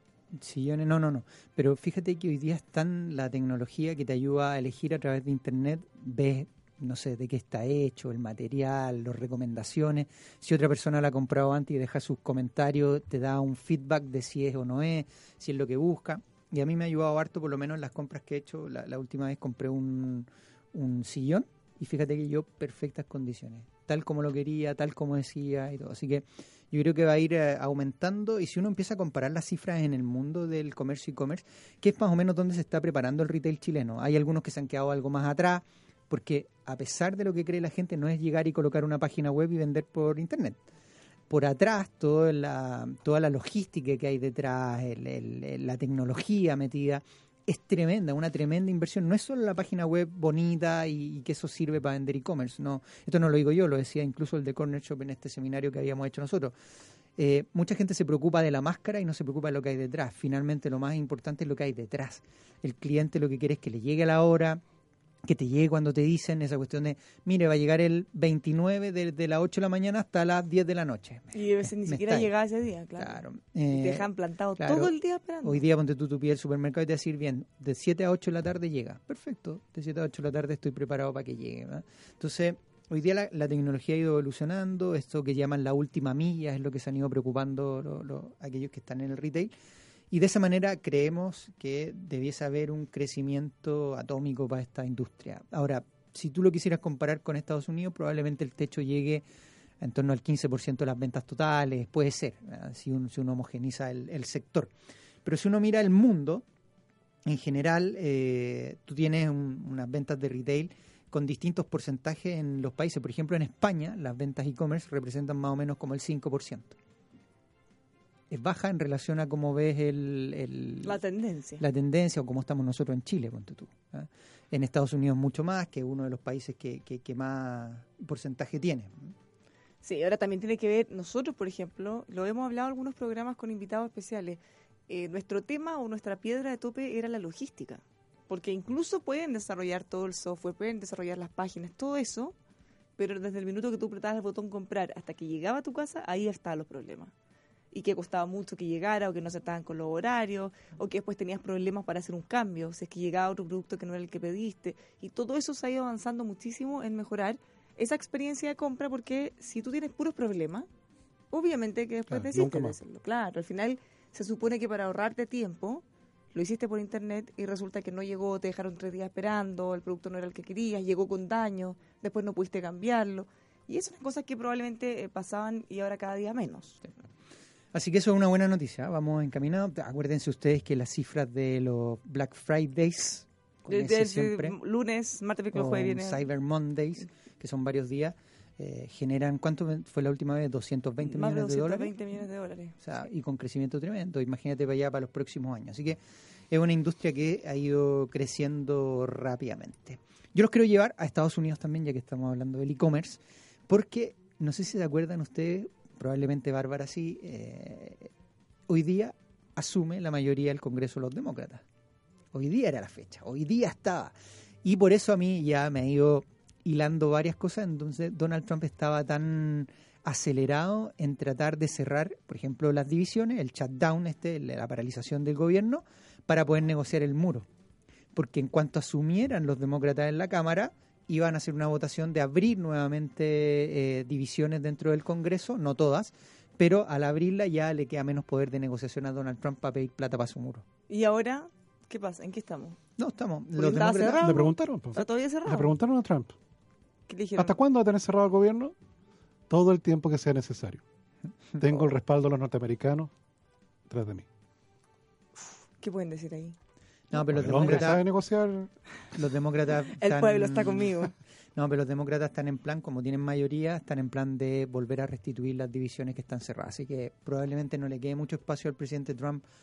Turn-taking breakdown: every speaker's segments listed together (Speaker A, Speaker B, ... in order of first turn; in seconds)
Speaker A: 0.3-40.6, 41.3-56.5, 57.2-64.6, 65.2-72.3, 73.0-89.5, 90.1-99.2, 99.8-104.7, 105.2-106.5, 107.2-116.8, 118.3-121.0, 121.6-129.2, 177.7-184.6, 185.5-191.9, 192.8-208.1, 208.7-211.6, 212.3-227.5, 228.1-240.7, 243.0-244.3, 257.1-258.1, 259.1-261.0, 261.6-269.4
Speaker B: 71.3-75.6, 120.8-121.6, 129.8-142.3, 143.0-147.1, 147.7-160.7, 161.3-176.8, 183.7-186.2, 191.0-192.8, 240.9-242.8, 243.6-245.8, 247.1-247.6, 255.4-256.6, 257.2-257.8, 259.9-261.1
Speaker C: 162.1-162.8, 244.2-246.3, 247.4-248.7, 249.5-250.8, 251.6-253.1, 253.9-254.3, 257.3-258.7